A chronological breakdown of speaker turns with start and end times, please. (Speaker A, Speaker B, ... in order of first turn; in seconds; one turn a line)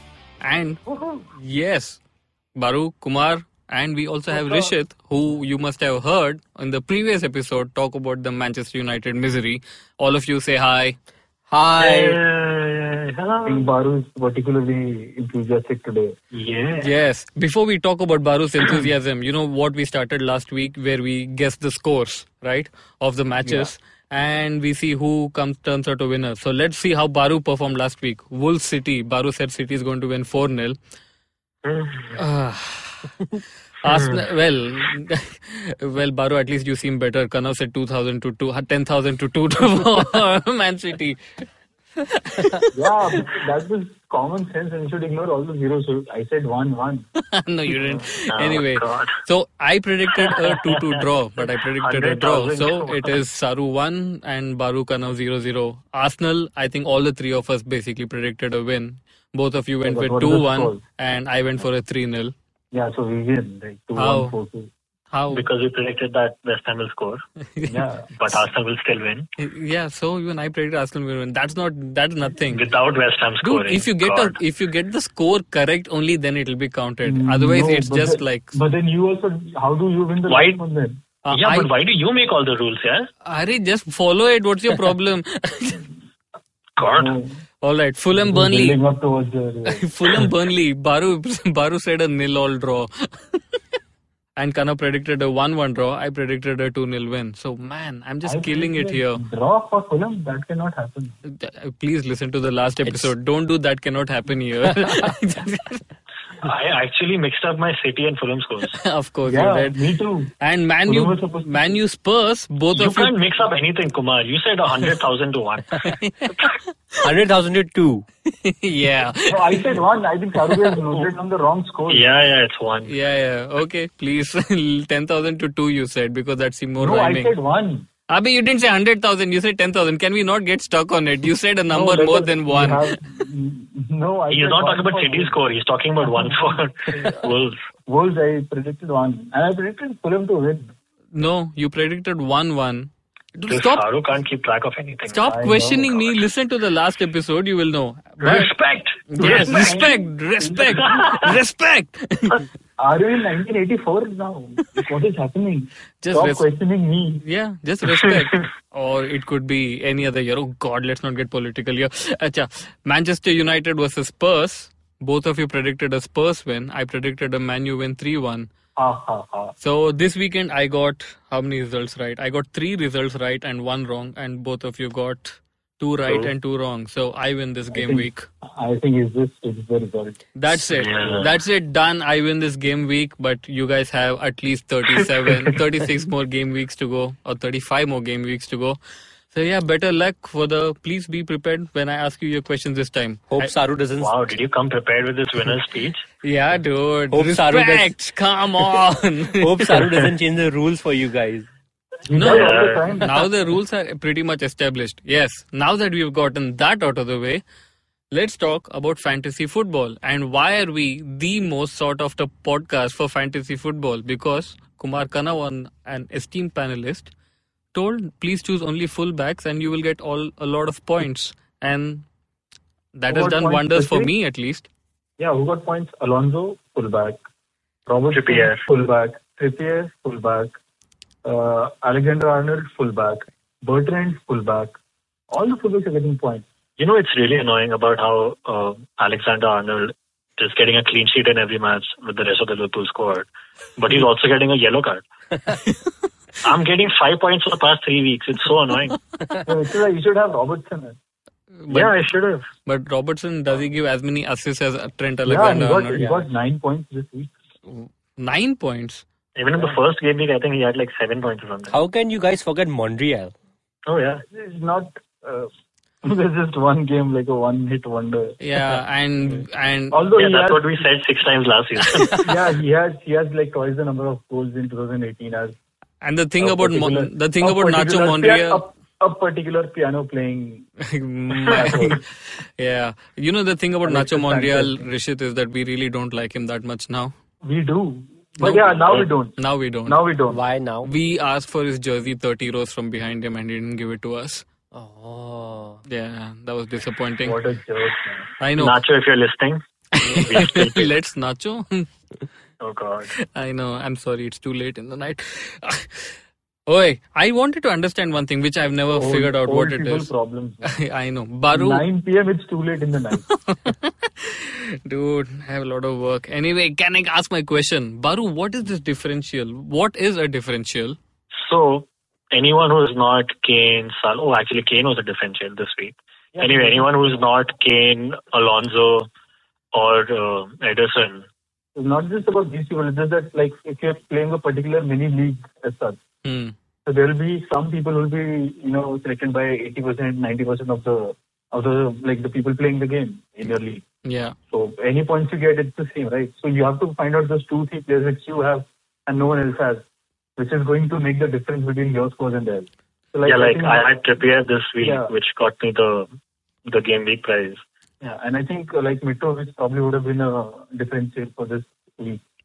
Speaker A: 0.4-0.8
Speaker A: 1.4-2.0
Speaker A: 2.6-11.0
Speaker B: 4.3-4.7
Speaker C: 11.5-12.2
Speaker B: 11.8-13.7
Speaker D: 13.4-16.1
Speaker B: 16.3-16.9
Speaker A: 16.8-30.8
Speaker B: 31.6-32.2
Speaker A: 32.2-33.1
Speaker B: 33.8-34.3
Speaker A: 33.8-41.2
Speaker A: 42.0-42.7
Speaker D: 42.7-47.0
Speaker A: 47.3-62.3
Speaker B: 48.3-49.2
Speaker B: 50.2-50.9
Speaker B: 51.8-53.2
Speaker D: 59.8-60.8
Speaker D: 62.7-64.7
Speaker A: 64.0-64.3
Speaker A: 65.1-65.5
Speaker B: 65.3-67.2
Speaker A: 67.5-67.9
Speaker D: 67.7-68.1
Speaker B: 68.2-69.3
Speaker A: 69.4-72.6
Speaker B: 72.5-74.4
Speaker A: 73.4-78.5
Speaker D: 77.0-81.0
Speaker B: 80.3-80.6
Speaker A: 81.2-81.7
Speaker B: 81.3-83.1
Speaker A: 83.2-85.9
Speaker B: 86.8-87.2
Speaker D: 86.8-87.4
Speaker A: 87.6-88.8
Speaker D: 88.1-89.9
Speaker A: 89.7-93.4
Speaker A: 94.4-99.2
Speaker D: 98.2-101.2
Speaker A: 101.3-105.8
Speaker C: 102.8-103.1
Speaker B: 106.4-108.8
Speaker A: 108.7-109.8
Speaker D: 109.2-110.3
Speaker A: 110.4-113.2
Speaker D: 110.9-111.8
Speaker B: 112.7-116.4
Speaker A: 115.9-116.5
Speaker C: 117.0-118.0
Speaker A: 118.3-119.7
Speaker D: 119.3-122.1
Speaker B: 121.9-122.9
Speaker A: 122.9-127.3
Speaker D: 126.8-127.9
Speaker A: 128.1-133.0
Speaker D: 131.7-135.4
Speaker B: 134.3-137.6
Speaker D: 136.0-136.9
Speaker D: 137.9-140.7
Speaker A: 141.1-143.8
Speaker B: 143.5-145.3
Speaker A: 145.1-148.5
Speaker D: 145.3-145.9
Speaker B: 148.2-149.6
Speaker A: 149.1-152.5
Speaker D: 149.2-150.8
Speaker B: 150.9-151.2
Speaker D: 152.8-157.2
Speaker A: 156.0-156.5
Speaker A: 157.2-168.5
Speaker B: 157.8-158.4
Speaker D: 168.8-169.5
Speaker A: 169.6-178.3
Speaker D: 177.7-180.2
Speaker A: 180.3-188.8
Speaker B: 180.5-181.4
Speaker A: 189.3-193.5
Speaker C: 193.3-194.1
Speaker B: 194.0-196.0
Speaker A: 196.2-199.8
Speaker C: 197.1-197.9
Speaker C: 199.4-201.5
Speaker D: 202.1-203.2
Speaker A: 202.1-207.4
Speaker B: 202.2-202.9
Speaker A: 208.1-217.1
Speaker A: 217.7-222.1
Speaker A: 222.9-224.7
Speaker D: 223.1-224.1
Speaker D: 225.2-227.2
Speaker D: 227.9-230.6
Speaker B: 228.1-228.6
Speaker D: 231.2-234.8
Speaker D: 235.3-236.4
Speaker B: 236.8-245.0
Speaker A: 245.5-245.8
Speaker B: 246.4-249.0
Speaker D: 249.5-251.0
Speaker A: 251.6-251.9
Speaker B: 251.7-252.5
Speaker A: 252.7-256.1
Speaker D: 255.2-257.3
Speaker C: 255.9-256.3
Speaker A: 257.7-259.0
Speaker B: 259.4-261.7
Speaker D: 259.5-259.8
Speaker C: 261.7-263.3
Speaker B: 263.9-264.2
Speaker D: 264.3-265.5
Speaker D: 266.0-268.4
Speaker A: 268.4-270.0
Speaker D: 269.9-270.9
Speaker B: 270.1-272.4
Speaker D: 272.2-275.5
Speaker A: 276.0-278.6
Speaker D: 276.4-280.7
Speaker A: 280.9-287.1
Speaker D: 281.5-282.0
Speaker D: 283.8-284.9
Speaker D: 287.4-290.4
Speaker A: 288.4-290.0
Speaker C: 290.3-290.9
Speaker A: 290.8-294.4
Speaker C: 294.7-295.8
Speaker A: 295.9-297.4
Speaker D: 297.2-298.3
Speaker A: 298.4-298.8
Speaker B: 298.6-300.9
Speaker A: 299.9-301.9
Speaker B: 302.6-303.1
Speaker A: 303.2-306.1
Speaker A: 306.7-310.1
Speaker D: 308.9-310.7
Speaker A: 310.6-311.9
Speaker D: 311.5-313.2
Speaker A: 313.3-321.0
Speaker B: 321.3-329.1
Speaker D: 326.4-327.3
Speaker B: 329.7-331.3
Speaker D: 331.8-336.0
Speaker A: 336.2-336.6
Speaker D: 336.9-343.8
Speaker A: 344.1-344.4
Speaker D: 344.5-349.8
Speaker D: 350.4-353.9
Speaker B: 353.2-356.1
Speaker D: 354.8-355.1
Speaker B: 356.7-357.6
Speaker D: 358.0-362.2